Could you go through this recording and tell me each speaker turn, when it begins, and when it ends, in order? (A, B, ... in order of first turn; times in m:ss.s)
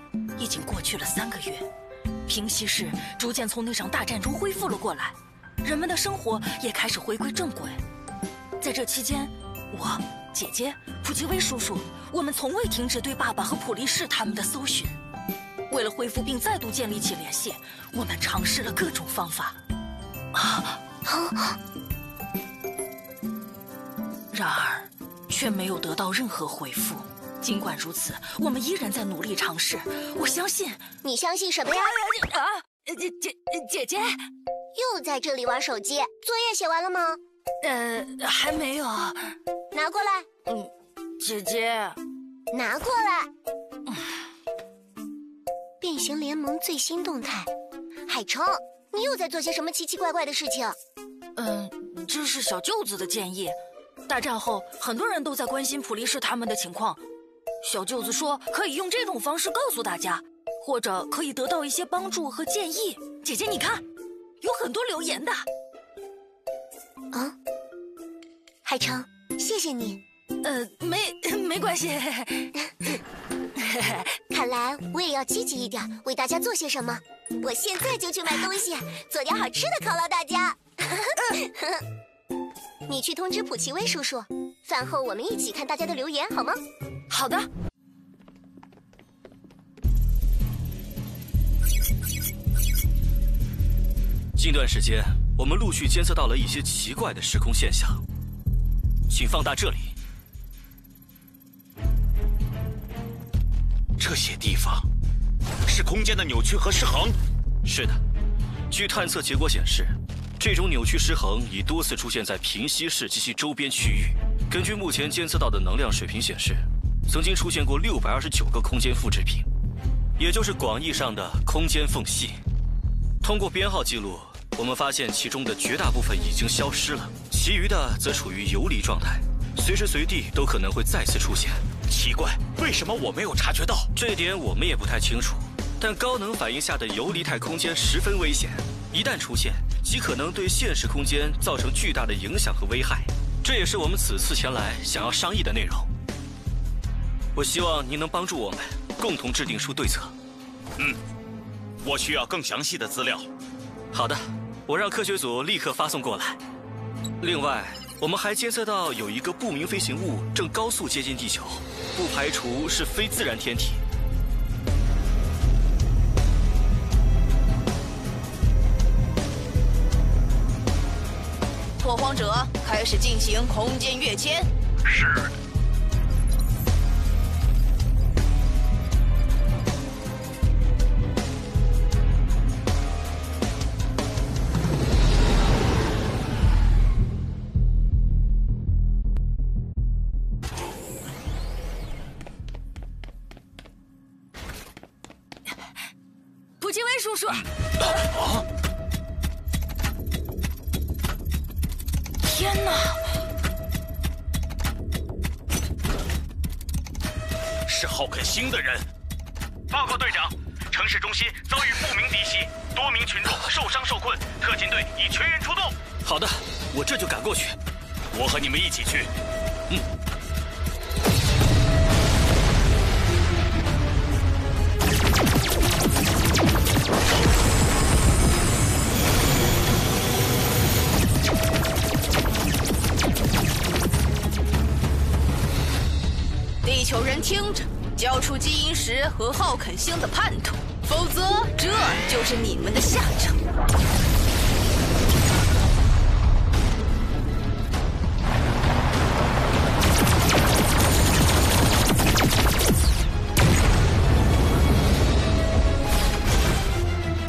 0:00.4-0:01.7 A
0:02.2-0:07.8 A
0:08.6-0:15.0 A
0:15.7-0:19.6 A
0:21.0-0:21.6 B
0:24.3-0:30.8 A
0:31.0-0:32.0 B
0:31.8-0:34.2 A
0:34.7-0:37.2 B
0:37.6-0:39.3 A
0:39.7-0:40.3 B
0:40.5-0:42.0 A
0:42.5-0:43.3 B
0:45.8-0:47.5 B
0:48.1-0:50.8 B
0:51.4-0:57.0 A
0:57.6-1:03.8 A
1:04.4-1:05.5 A
1:08.6-1:10.0 B
1:10.4-1:12.5 A
1:13.6-1:14.0 A
1:14.3-1:21.8 B
1:22.9-1:26.6 B
1:27.1-1:27.4 A
1:34.4-1:38.0 C
1:39.1-1:39.9 C
1:44.0-1:44.8 D
1:45.7-1:47.2 D
1:47.6-1:48.0 C
1:48.7-1:59.4 C
2:00.2-2:02.4 C
2:03.2-2:11.6 C
2:11.9-2:13.9 D
2:13.9-2:25.9 C
2:27.3-2:30.1 C
2:31.8-2:33.3 D
2:33.9-2:36.4 C
2:37.2-2:43.8 C
2:51.8-2:54.5 E
3:16.6-3:17.4 A
3:22.2-3:23.1 A
3:27.7-3:28.8 D
3:29.7-3:35.7 D
3:36.0-3:37.6 C
3:38.1-3:39.1 D
3:56.6-4:03.4 E